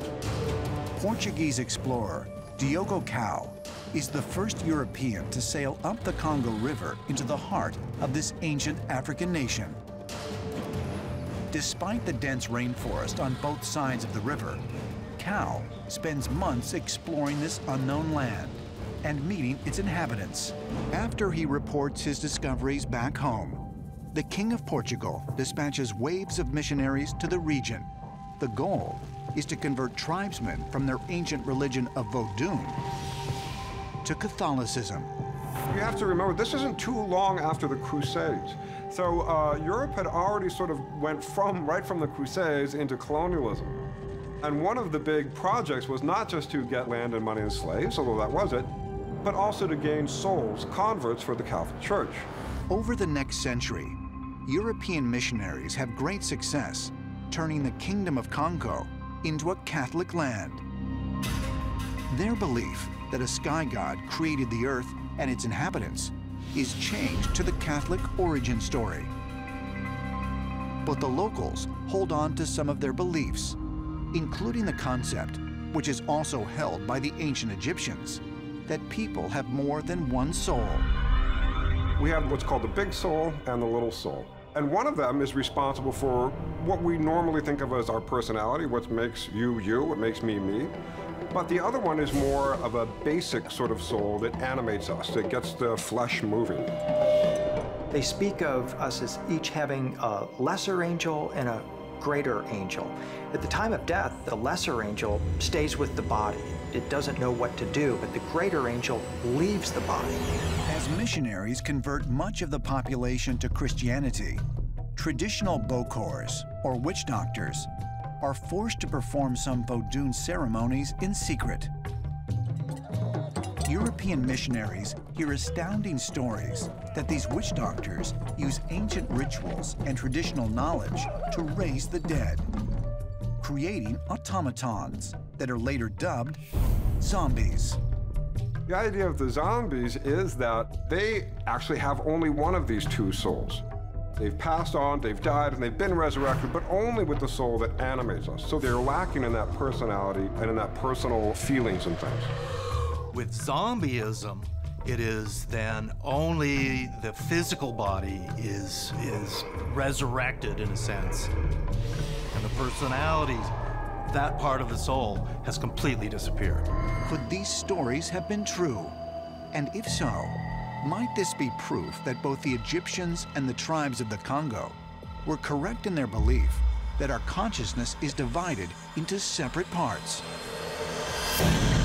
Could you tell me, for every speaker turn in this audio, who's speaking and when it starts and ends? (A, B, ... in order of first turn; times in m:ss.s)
0:01.0-0:09.8 A
0:11.5-0:14.6 A
0:15.2-0:27.9 A
0:28.4-0:32.8 A
0:34.0-0:35.1 A
0:35.7-0:43.8 B
0:44.4-0:48.7 B
0:49.2-0:52.3 B
0:52.7-1:00.6 A
1:02.1-1:09.1 A
1:10.8-1:13.6 A
1:14.1-1:20.9 A
1:22.0-1:30.7 B
1:31.3-1:36.7 B
1:37.9-1:50.3 C
1:50.7-1:54.4 A
1:55.0-1:57.7 A
1:58.2-2:01.7 A
2:03.6-2:12.4 A
2:13.4-2:16.4 A
2:17.0-2:17.8 A
2:18.7-2:23.6 B
2:24.2-2:32.3 B
2:33.1-2:41.3 D
2:42.3-2:43.5 D
2:44.0-2:46.7 D
2:47.0-2:49.0 A
2:49.5-3:00.2 A